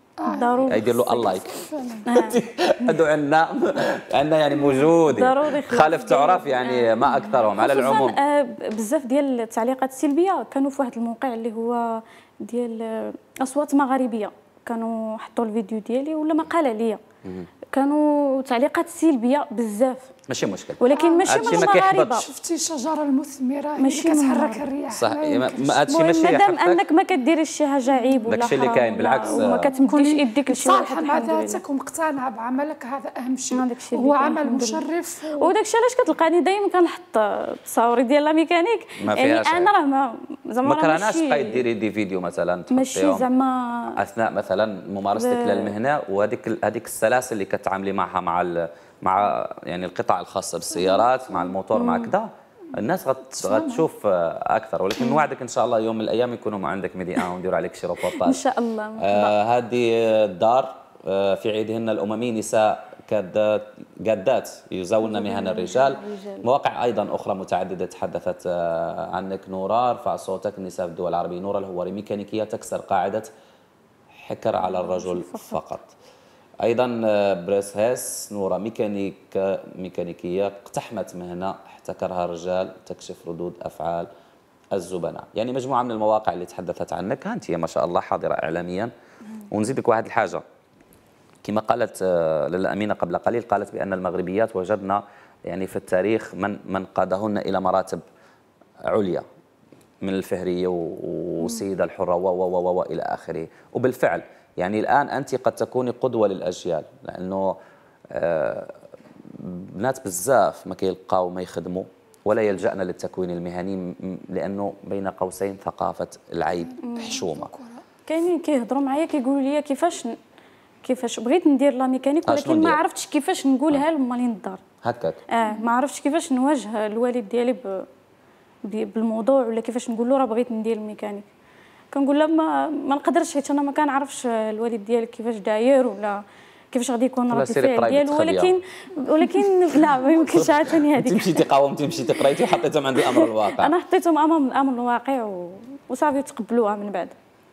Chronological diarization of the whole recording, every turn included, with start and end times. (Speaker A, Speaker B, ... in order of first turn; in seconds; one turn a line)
Speaker A: 0.2-2.2
Speaker B: 0.3-1.0
Speaker C: 0.7-1.6
Speaker B: 2.1-2.9
Speaker C: 2.1-8.2
Speaker B: 4.5-17.0
Speaker B: 17.7-20.1
Speaker C: 20.3-22.2
Speaker B: 20.8-22.2
Speaker A: 20.9-25.8
Speaker B: 23.8-24.6
Speaker C: 24.9-26.8
Speaker B: 25.9-31.6
Speaker C: 28.2-29.7
Speaker A: 29.2-35.5
Speaker B: 33.5-34.9
Speaker B: 35.4-41.6
Speaker C: 39.0-39.7
Speaker C: 40.6-43.3
Speaker B: 42.7-44.0
Speaker C: 43.9-58.4
Speaker B: 45.1-45.8
Speaker B: 51.7-52.1
Speaker A: 53.2-53.9
Speaker B: 55.0-55.2
Speaker B: 58.1-59.3
Speaker C: 59.0-73.3
Speaker B: 65.0-66.5
Speaker C: 74.1-75.9
Speaker B: 74.6-75.6
Speaker C: 76.6-84.1
Speaker C: 84.7-88.9
Speaker C: 89.5-90.4
Speaker C: 91.4-98.0
Speaker C: 98.9-99.2
Speaker C: 100.0-107.5
Speaker C: 108.1-117.5
Speaker A: 116.5-117.8
Speaker B: 116.8-117.2
Speaker B: 118.1-120.2
Speaker B: 120.8-124.6
Speaker C: 122.2-122.8
Speaker C: 124.8-125.2
Speaker B: 125.3-127.9
Speaker B: 128.7-131.3
Speaker B: 131.9-141.5
Speaker C: 137.3-138.6
Speaker C: 139.3-143.8
Speaker B: 142.2-147.2